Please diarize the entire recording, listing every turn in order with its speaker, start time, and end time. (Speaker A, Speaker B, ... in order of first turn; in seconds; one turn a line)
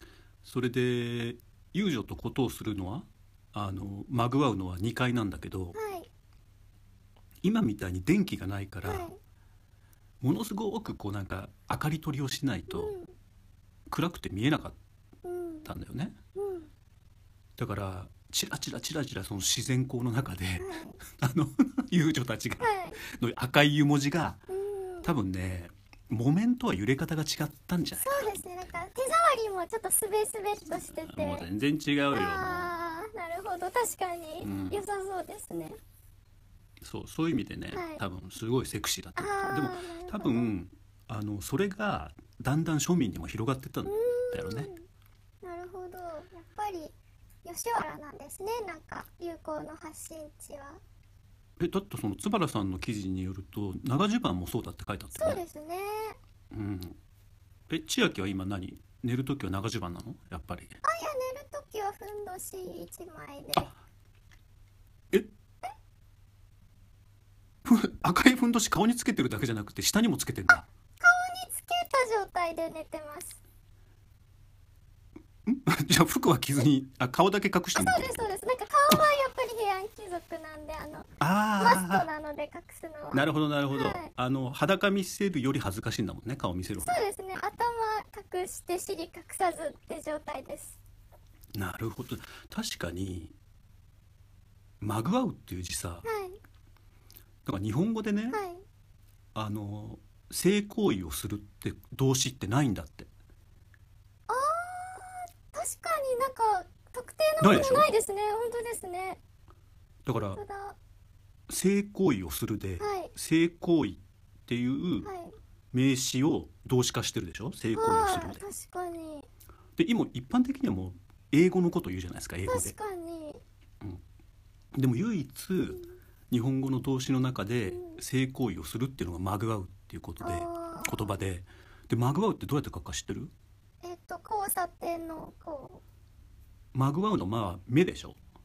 Speaker A: 0.4-5.8
Speaker B: 5.7-6.1
Speaker A: 7.4-9.1
Speaker B: 8.8-9.2
Speaker A: 10.2-12.9
Speaker B: 12.7-13.1
Speaker A: 13.9-14.8
Speaker B: 15.2-15.7
Speaker A: 15.6-16.1
Speaker B: 16.3-16.7
Speaker A: 17.6-24.4
Speaker B: 20.6-21.0
Speaker B: 22.6-23.0
Speaker B: 24.5-25.1
Speaker A: 25.0-28.3
Speaker B: 28.0-31.5
Speaker A: 30.8-32.7
Speaker B: 32.1-35.8
Speaker A: 34.4-34.8
Speaker A: 36.8-44.7
Speaker B: 37.7-38.0
Speaker B: 39.2-40.5
Speaker B: 43.8-44.9
Speaker B: 45.4-50.8
Speaker A: 51.6-55.4
Speaker B: 55.1-56.2
Speaker A: 56.5-57.0
Speaker A: 57.7-60.8
Speaker B: 60.8-63.7
Speaker A: 67.6-70.7
Speaker B: 71.0-73.4
Speaker A: 75.4-78.2
Speaker B: 77.7-84.1
Speaker A: 81.2-82.1
Speaker A: 83.1-87.0
Speaker B: 86.8-90.8
Speaker A: 91.5-93.3
Speaker A: 94.8-96.0
Speaker B: 96.0-96.4
Speaker A: 97.4-98.4
Speaker B: 98.3-98.6
Speaker A: 99.3-103.1
Speaker B: 104.3-109.2
Speaker A: 107.4-107.9
Speaker A: 110.0-110.4
Speaker B: 110.3-110.8
Speaker A: 111.5-115.1
Speaker B: 112.8-113.1
Speaker B: 115.0-115.3
Speaker A: 115.7-118.4
Speaker B: 117.7-119.3
Speaker A: 119.8-122.7
Speaker B: 122.5-123.4
Speaker A: 124.7-133.3
Speaker B: 127.7-128.0
Speaker B: 130.2-131.1
Speaker B: 133.8-135.8
Speaker A: 136.7-138.2